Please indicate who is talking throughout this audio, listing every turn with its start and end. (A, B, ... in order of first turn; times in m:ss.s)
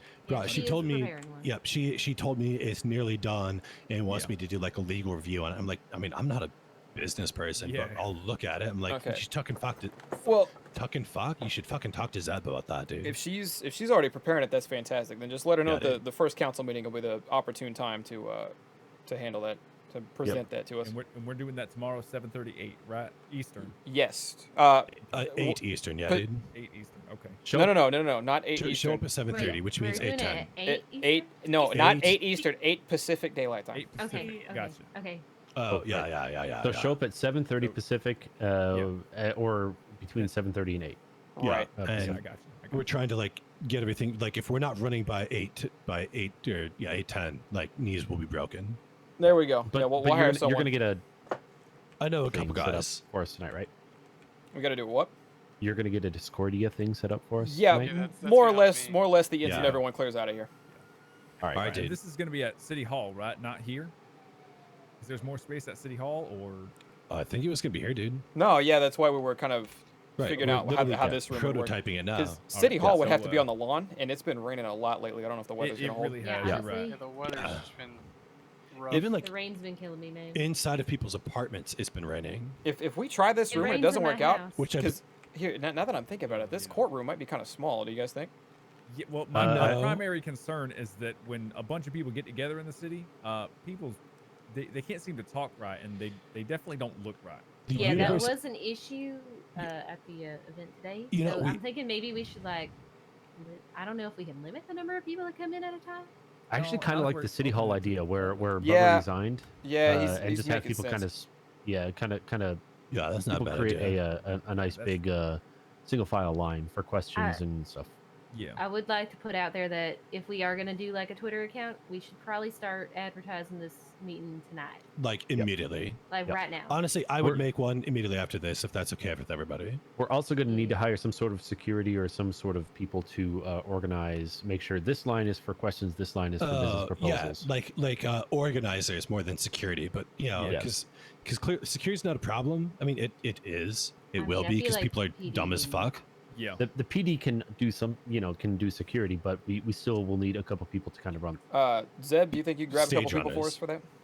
0:00.2-0:01.5 A
0:00.3-0:13.2 B
0:00.4-0:00.7 C
0:07.5-0:08.1 C
0:08.9-0:09.2 D
0:10.2-0:10.6 D
0:13.0-0:18.5 D
0:15.6-0:16.0 B
0:19.0-0:20.9 D
0:20.8-0:23.7 C
0:23.8-0:26.2 D
0:25.0-0:25.3 C
0:25.1-0:26.5 B
0:26.5-0:27.4 C
0:27.4-0:27.8 E
0:27.5-0:29.1 D
0:28.5-0:30.6 B
0:29.3-0:31.7 A
0:30.6-0:33.9 D
0:31.7-0:32.3 B
0:33.7-0:34.9 C
0:34.0-0:35.2 A
0:35.6-0:37.0 B
0:35.7-0:36.1 E
0:36.6-0:41.0 E
0:41.4-0:41.8 D
0:41.4-0:48.8 B
0:41.8-0:42.2 E
0:41.8-0:42.9 C
0:49.2-0:50.7 D
0:49.2-0:51.0 E
0:52.0-0:53.0 B
0:52.3-0:53.7 E
0:54.5-0:55.1 D
0:55.6-0:57.9 E
0:57.4-1:00.5 D
0:57.8-0:59.2 F
0:59.4-0:59.8 B
1:01.4-1:01.9 E
1:01.5-1:02.0 B
1:01.6-1:03.9 C
1:05.0-1:06.7 C
1:07.1-1:08.2 B
1:08.3-1:16.3 D
1:10.2-1:13.1 B
1:12.5-1:13.5 C
1:15.6-1:17.0 C
1:16.2-1:17.1 A
1:16.9-1:18.1 F
1:17.3-1:17.6 B
1:18.7-1:19.3 F
1:18.9-1:19.3 B
1:19.2-1:20.4 A
1:20.3-1:22.6 B
1:22.6-1:28.3 D
1:23.5-1:24.6 A
1:24.5-1:25.0 B
1:26.2-1:26.8 C
1:28.9-1:38.2 C
1:29.3-1:30.0 E
1:29.3-1:30.0 B
1:37.7-1:38.3 B
1:37.7-1:42.7 A
1:41.1-1:41.6 B
1:43.4-1:46.1 A
1:46.5-1:52.6 E
1:46.5-1:48.5 C
1:48.6-1:49.0 D
1:49.6-1:51.0 D
1:52.9-1:54.0 B
1:53.3-1:57.9 E
1:54.6-1:55.0 C
1:57.1-1:57.4 A
1:58.3-1:58.6 C
1:58.6-2:04.8 A
2:05.0-2:06.0 B
2:06.1-2:06.8 A
2:06.7-2:09.8 B
2:10.0-2:17.5 E
2:10.4-2:10.8 A
2:16.4-2:26.0 B
2:20.4-2:20.6 C
2:20.4-2:20.7 E
2:24.2-2:26.0 A
2:26.3-2:26.6 C
2:26.6-2:31.4 E
2:31.5-2:33.8 D
2:32.7-2:33.6 B